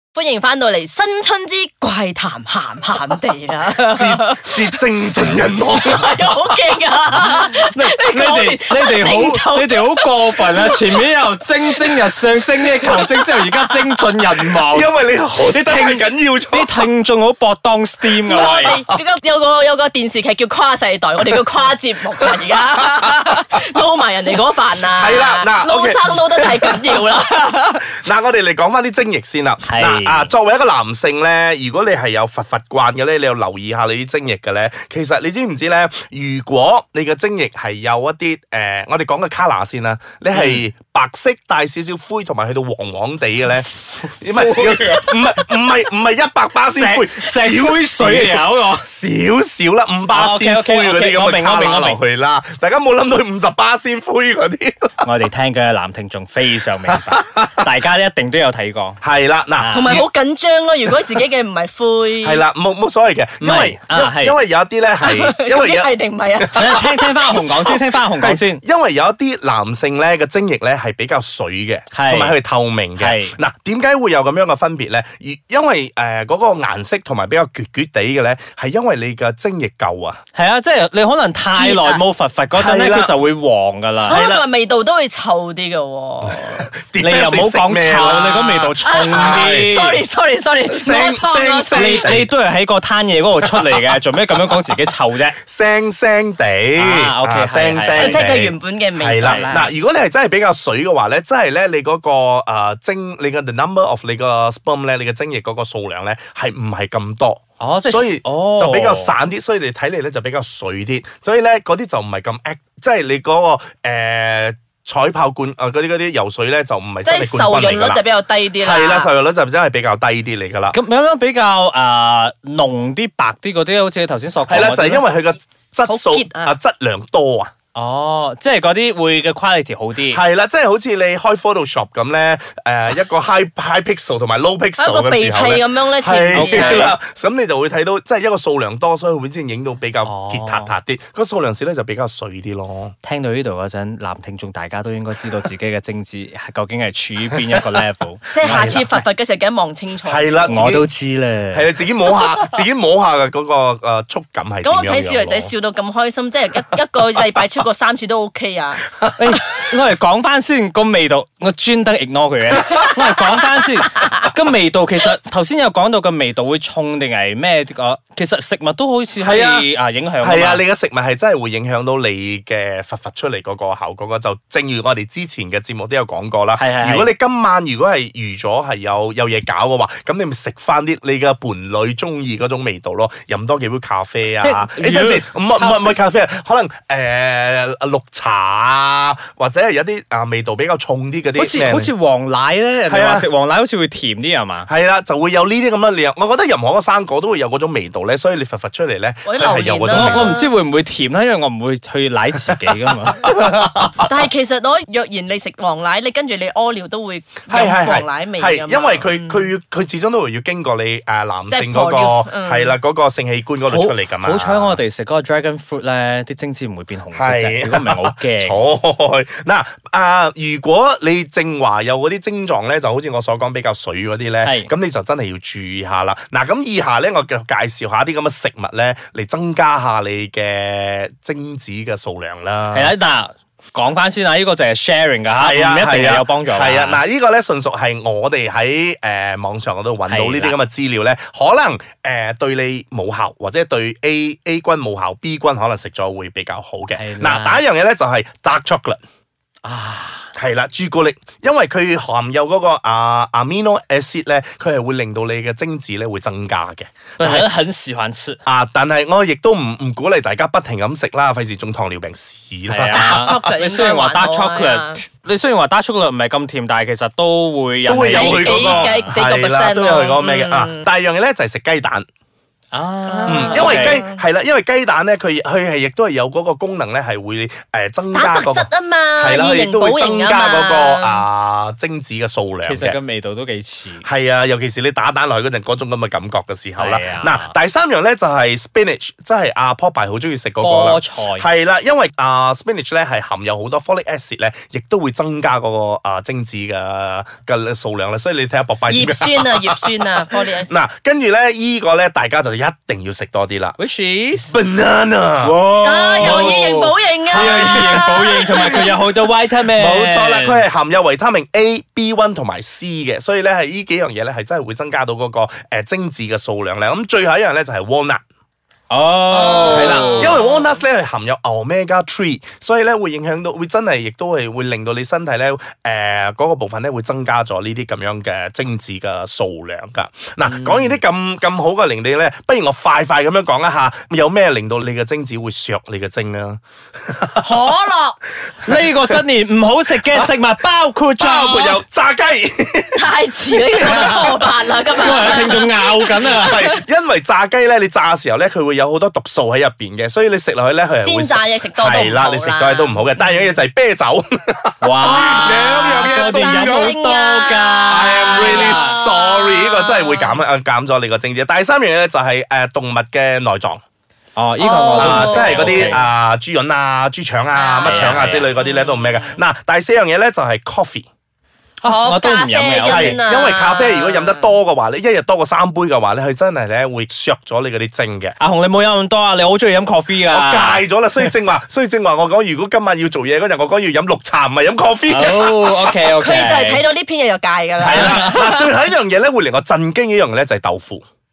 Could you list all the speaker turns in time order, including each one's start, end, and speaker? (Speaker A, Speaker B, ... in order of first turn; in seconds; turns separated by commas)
Speaker A: 0.1-10.1, Speaker B: 3.9-6.4, Speaker C: 7.3-14.9, Speaker A: 12.9-13.5, Speaker B: 14.6-16.9, Speaker C: 15.4-18.8, Speaker B: 18.2-18.9, Speaker A: 18.3-27.9, Speaker B: 22.2-22.6, Speaker B: 24.9-27.0, Speaker B: 27.9-55.0, Speaker C: 29.7-30.3, Speaker C: 40.3-40.6, Speaker C: 44.3-45.2, Speaker C: 46.6-48.9, Speaker C: 50.1-52.0, Speaker C: 55.0-59.0, Speaker B: 56.9-57.7, Speaker B: 59.0-60.1, Speaker C: 59.6-60.0, Speaker A: 59.7-62.4, Speaker B: 62.2-80.2, Speaker C: 63.4-64.4, Speaker A: 65.0-67.5, Speaker C: 66.5-68.6, Speaker C: 71.9-72.4, Speaker C: 73.0-73.3, Speaker C: 80.3-84.2, Speaker A: 81.5-82.0, Speaker B: 82.5-83.2, Speaker B: 84.1-84.5, Speaker A: 84.1-86.7, Speaker B: 86.2-89.8, Speaker C: 87.0-90.0, Speaker A: 88.8-92.1, Speaker B: 90.7-92.3, Speaker C: 91.7-95.4, Speaker B: 93.4-93.8, Speaker B: 95.4-118.0, Speaker C: 96.8-98.3, Speaker A: 98.0-99.7, Speaker C: 99.2-99.6, Speaker C: 107.6-109.1, Speaker A: 117.0-119.1, Speaker B: 118.6-120.8, Speaker C: 120.7-125.0, Speaker B: 124.5-127.5, Speaker A: 125.8-126.5, Speaker C: 127.8-130.2, Speaker B: 130.1-142.9, Speaker A: 134.8-136.9, Speaker C: 136.3-136.9, Speaker C: 140.1-140.7, Speaker C: 143.0-149.0, Speaker A: 148.3-150.6, Speaker B: 148.4-148.9, Speaker B: 150.0-150.9, Speaker C: 150.5-151.7, Speaker B: 151.5-155.5, Speaker A: 154.6-158.8, Speaker C: 159.2-170.6, Speaker B: 169.2-169.7, Speaker B: 170.2-191.9, Speaker C: 176.6-177.1, Speaker C: 184.4-186.0, Speaker C: 191.4-194.7, Speaker B: 192.9-193.3, Speaker B: 194.7-200.4, Speaker A: 199.2-200.5, Speaker C: 199.9-204.0, Speaker B: 202.5-202.8, Speaker A: 204.0-209.5, Speaker B: 207.5-214.8, Speaker A: 211.5-212.7, Speaker C: 213.7-218.6, Speaker B: 217.1-232.9, Speaker C: 224.4-224.7, Speaker C: 232.7-237.0, Speaker B: 235.4-249.0, Speaker C: 240.1-240.6, Speaker C: 247.0-247.6, Speaker C: 249.6-250.3, Speaker B: 250.3-257.5, Speaker C: 257.2-258.4, Speaker B: 258.5-263.5, Speaker C: 262.7-269.1, Speaker A: 262.9-265.0, Speaker B: 267.9-272.1, Speaker A: 268.1-270.9, Speaker C: 272.7-274.0, Speaker A: 273.1-274.2, Speaker B: 273.3-283.0, Speaker A: 278.1-281.3, Speaker C: 282.6-284.1, Speaker B: 284.0-303.8, Speaker C: 286.8-287.5, Speaker C: 290.6-291.5, Speaker A: 298.9-300.7, Speaker C: 303.8-304.5, Speaker B: 304.5-305.5, Speaker C: 305.4-310.6, Speaker A: 305.8-308.9, Speaker B: 306.2-306.7, Speaker B: 307.3-308.9, Speaker B: 309.7-318.2, Speaker C: 318.9-320.4, Speaker A: 319.3-320.7, Speaker B: 319.7-337.5, Speaker C: 330.4-331.0, Speaker A: 337.4-338.2, Speaker C: 338.6-341.8, Speaker B: 341.2-343.1, Speaker A: 342.9-346.7, Speaker C: 343.8-344.3, Speaker B: 343.8-344.4, Speaker C: 344.9-346.7, Speaker B: 346.3-356.9, Speaker A: 351.0-353.1, Speaker C: 354.8-359.0, Speaker A: 355.0-360.4, Speaker B: 357.9-363.8, Speaker C: 364.4-366.0, Speaker A: 364.6-366.0, Speaker B: 365.0-371.1, Speaker A: 367.5-369.4, Speaker C: 367.9-368.5, Speaker C: 371.8-373.2, Speaker A: 371.8-374.5, Speaker B: 372.9-378.4, Speaker C: 378.4-380.9, Speaker B: 380.3-385.6, Speaker C: 385.1-386.8, Speaker A: 386.2-388.7, Speaker B: 387.8-391.0, Speaker C: 387.9-388.4